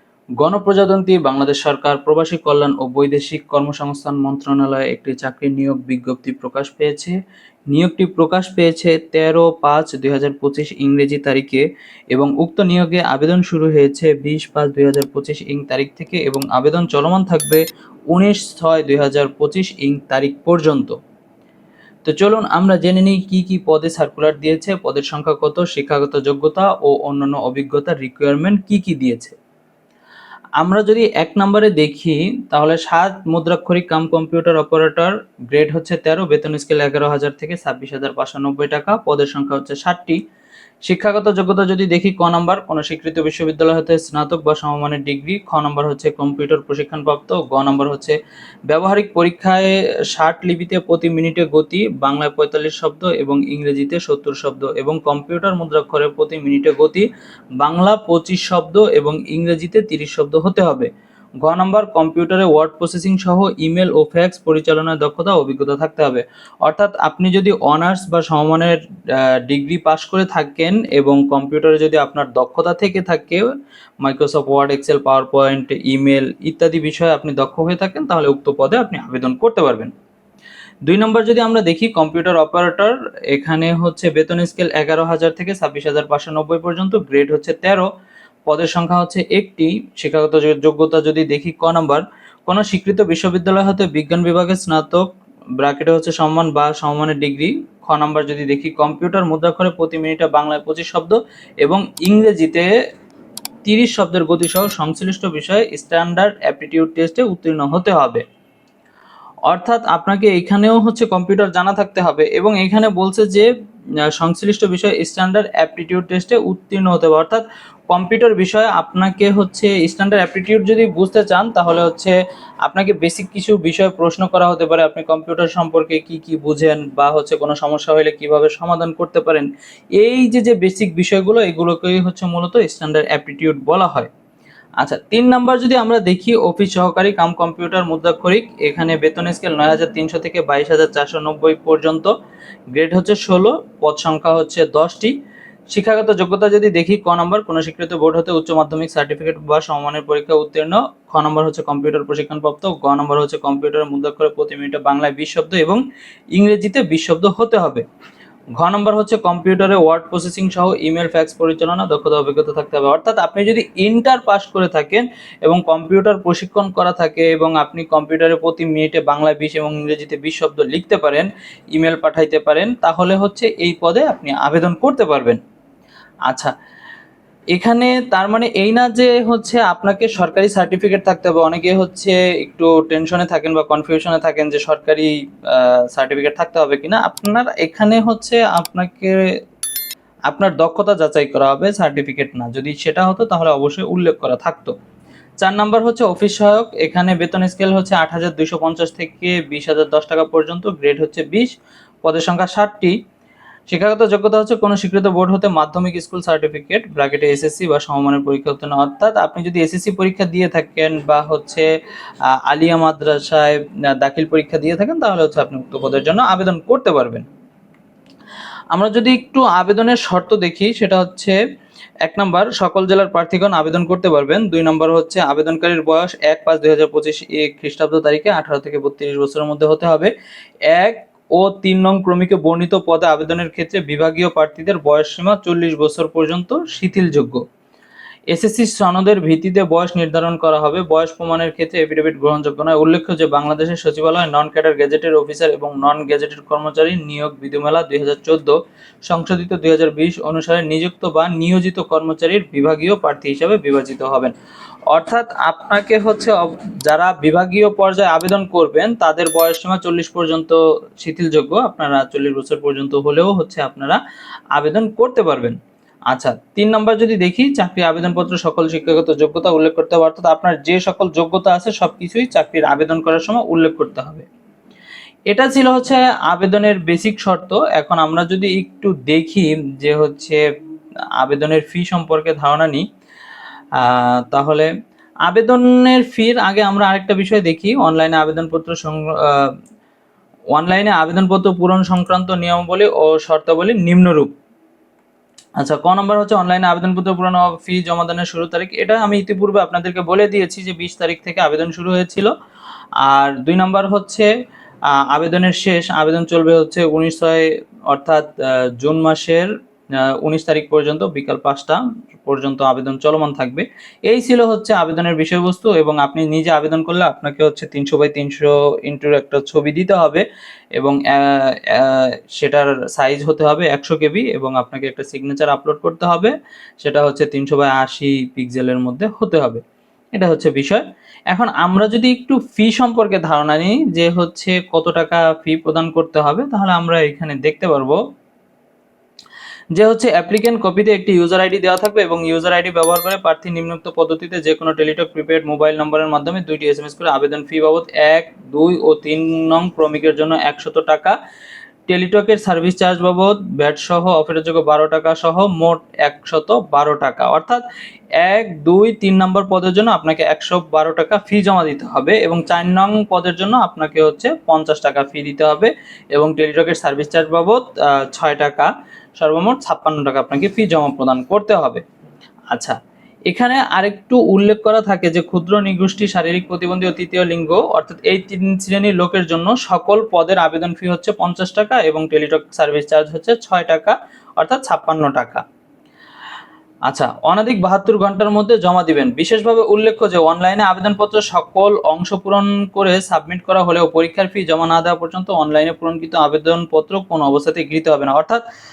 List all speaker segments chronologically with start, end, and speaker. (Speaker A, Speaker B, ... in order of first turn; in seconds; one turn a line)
Speaker A: 0.4-7.2
Speaker A: 7.7-21.0
Speaker A: 22.1-29.4
Speaker A: 30.6-40.2
Speaker A: 40.9-48.2
Speaker A: 48.7-57.1
Speaker A: 57.6-60.9
Speaker A: 61.4-73.5
Speaker A: 74.0-79.9
Speaker A: 80.9-87.9
Speaker A: 88.5-95.1
Speaker A: 95.6-102.7
Speaker A: 103.7-108.2
Speaker A: 109.5-113.5
Speaker A: 114.1-134.1
Speaker A: 134.8-142.1
Speaker A: 142.7-145.1
Speaker A: 145.7-155.8
Speaker A: 156.4-157.8
Speaker A: 158.6-175.4
Speaker A: 177.6-189.2
Speaker A: 190.3-194.8
Speaker A: 195.4-203.0
Speaker A: 203.7-211.7
Speaker A: 212.3-217.2
Speaker A: 218.7-221.4
Speaker A: 222.1-230.1
Speaker A: 230.7-237.4
Speaker A: 238.3-248.6
Speaker A: 249.1-254.3
Speaker A: 254.9-264.0
Speaker A: 264.6-265.6
Speaker A: 266.1-274.3
Speaker A: 275.3-280.4
Speaker A: 281.2-282.9
Speaker A: 283.8-284.7
Speaker A: 285.3-289.5
Speaker A: 290.5-294.3
Speaker A: 295.6-302.3
Speaker A: 303.0-304.3
Speaker A: 305.0-309.5
Speaker A: 310.0-320.2
Speaker A: 320.8-329.6
Speaker A: 330.1-338.0
Speaker A: 339.8-351.2
Speaker A: 351.9-357.6
Speaker A: 358.2-371.8
Speaker A: 372.5-372.8
Speaker A: 373.3-385.4
Speaker A: 386.9-398.4